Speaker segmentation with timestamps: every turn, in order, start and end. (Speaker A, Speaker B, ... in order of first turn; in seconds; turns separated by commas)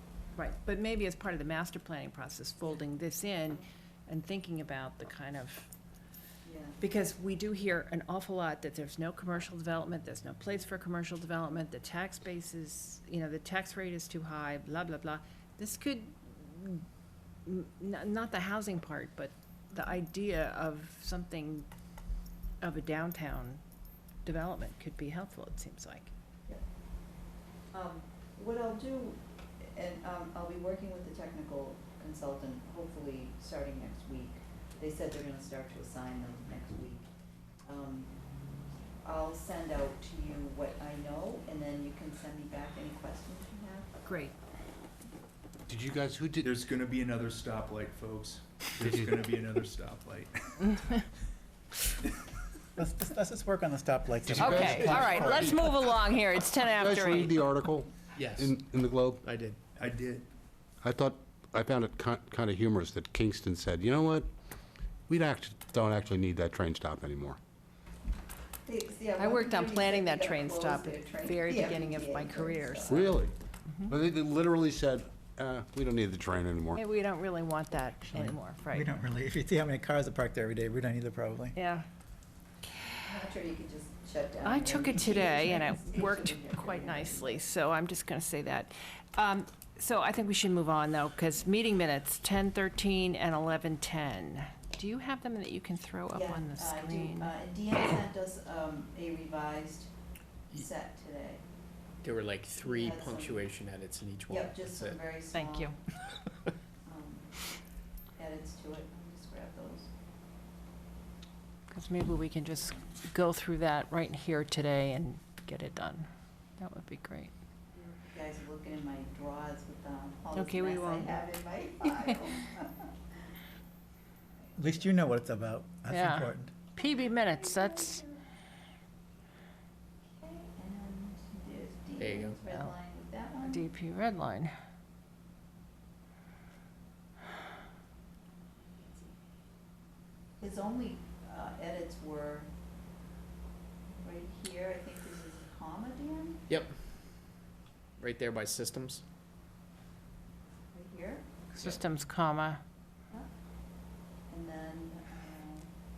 Speaker A: 0.4-5.7, Speaker B: 6.4-6.8, Speaker A: 6.8-16.8, Speaker A: 17.5-21.7, Speaker A: 22.6-23.6, Speaker A: 24.2-26.1, Speaker B: 27.7-29.2, Speaker B: 29.7-37.0, Speaker B: 37.7-38.1, Speaker B: 39.0-43.9, Speaker A: 44.0-44.3, Speaker C: 45.7-46.5, Speaker D: 46.4-50.7, Speaker E: 52.8-55.8, Speaker A: 54.3-57.4, Speaker C: 54.4-55.6, Speaker C: 56.7-59.2, Speaker F: 58.2-58.6, Speaker F: 59.2-59.6, Speaker D: 59.8-60.3, Speaker C: 60.8-64.3, Speaker C: 65.1-67.4, Speaker B: 68.7-73.1, Speaker A: 69.2-73.1, Speaker C: 72.9-73.3, Speaker C: 73.9-76.8, Speaker A: 76.7-78.9, Speaker E: 78.1-81.6, Speaker A: 81.6-81.9, Speaker B: 83.1-87.4, Speaker A: 84.4-97.3, Speaker B: 96.1-99.9, Speaker B: 100.5-101.4, Speaker F: 102.0-105.0, Speaker B: 102.6-103.5, Speaker B: 104.3-105.8, Speaker A: 105.3-105.8, Speaker B: 106.9-107.3, Speaker B: 108.2-109.9, Speaker A: 111.7-117.3, Speaker B: 117.7-122.9, Speaker A: 120.3-121.2, Speaker E: 124.6-126.5, Speaker A: 125.9-128.1, Speaker B: 127.4-128.2, Speaker B: 130.2-133.7, Speaker F: 131.9-132.4, Speaker A: 133.4-134.5, Speaker B: 140.4-142.5, Speaker B: 144.0-146.4, Speaker F: 148.0-149.0, Speaker B: 150.7-151.2, Speaker A: 151.6-152.6, Speaker B: 154.3-155.7